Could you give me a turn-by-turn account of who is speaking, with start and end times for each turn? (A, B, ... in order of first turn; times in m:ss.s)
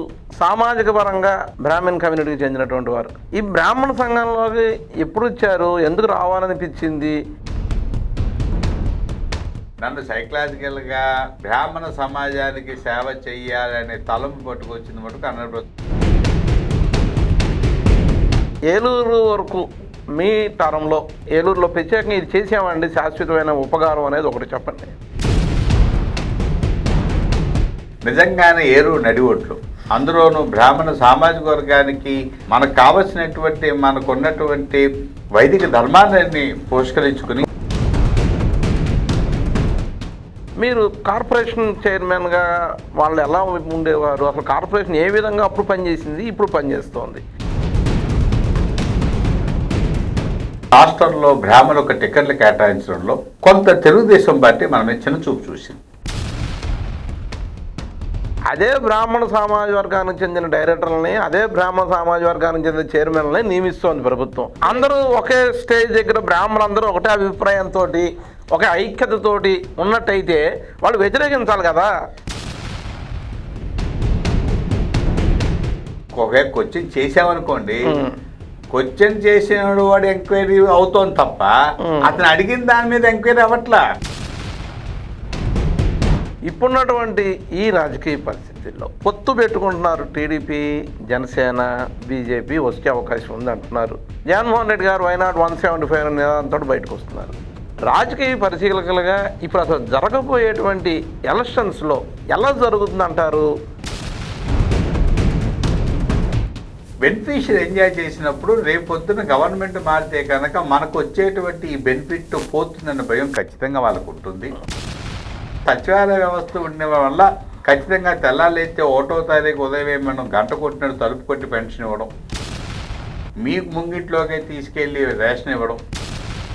0:00.4-0:07.2 A
0:09.8-0:15.7 B
0:18.7-0:19.7 A
0:20.2-0:25.0 A
0:28.1-0:37.5 B
0:40.6-0:42.5 A
0:43.0-0:47.2 A
0:50.8-0:55.8 B
0:58.5-1:11.9 A
1:16.2-1:17.8 B
1:18.7-1:23.8 B
1:21.8-1:22.2 A
1:26.5-1:37.4 A
1:37.9-1:43.5 A
1:47.0-1:54.5 B
1:55.7-2:02.1 B
2:03.4-2:05.8 B